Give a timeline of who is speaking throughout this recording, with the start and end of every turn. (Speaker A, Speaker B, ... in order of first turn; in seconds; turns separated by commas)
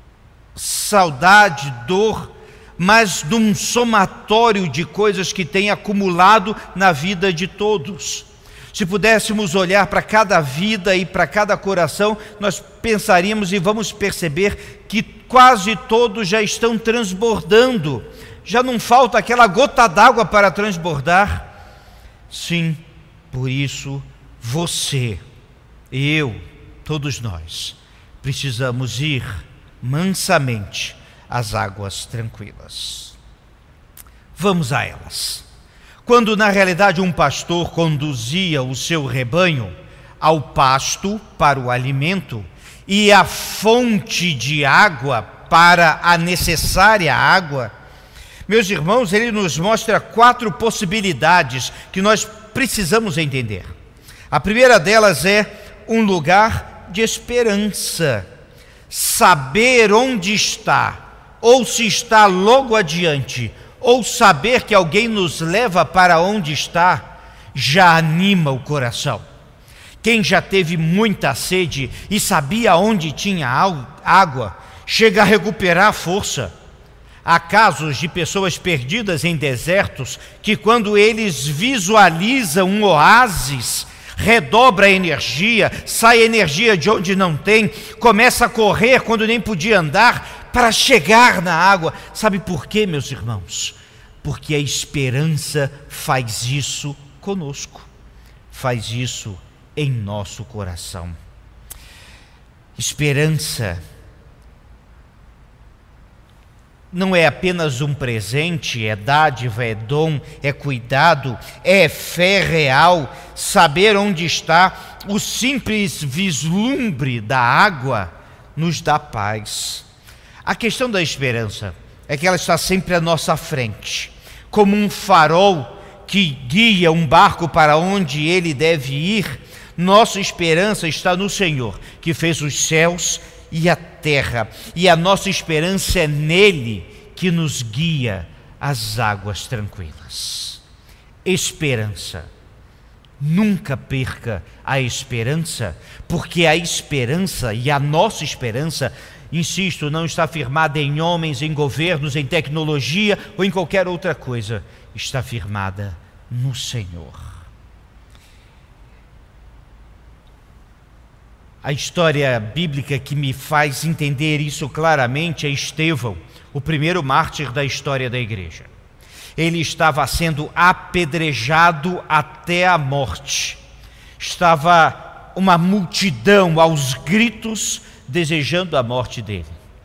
Speaker A: 0.5-21.5, Speaker A: 22.3-25.2, Speaker A: 25.9-33.2, Speaker A: 34.4-35.4, Speaker A: 36.0-47.7, Speaker A: 48.5-53.7, Speaker A: 54.3-58.3, Speaker A: 58.9-69.2, Speaker A: 70.0-76.5, Speaker A: 77.2-97.9, Speaker A: 98.5-101.2, Speaker A: 102.8-103.8, Speaker A: 106.9-119.8, Speaker A: 120.4-140.6, Speaker A: 141.2-142.3, Speaker A: 143.2-157.4, Speaker A: 161.6-168.7, Speaker A: 169.4-173.6, Speaker A: 174.2-179.6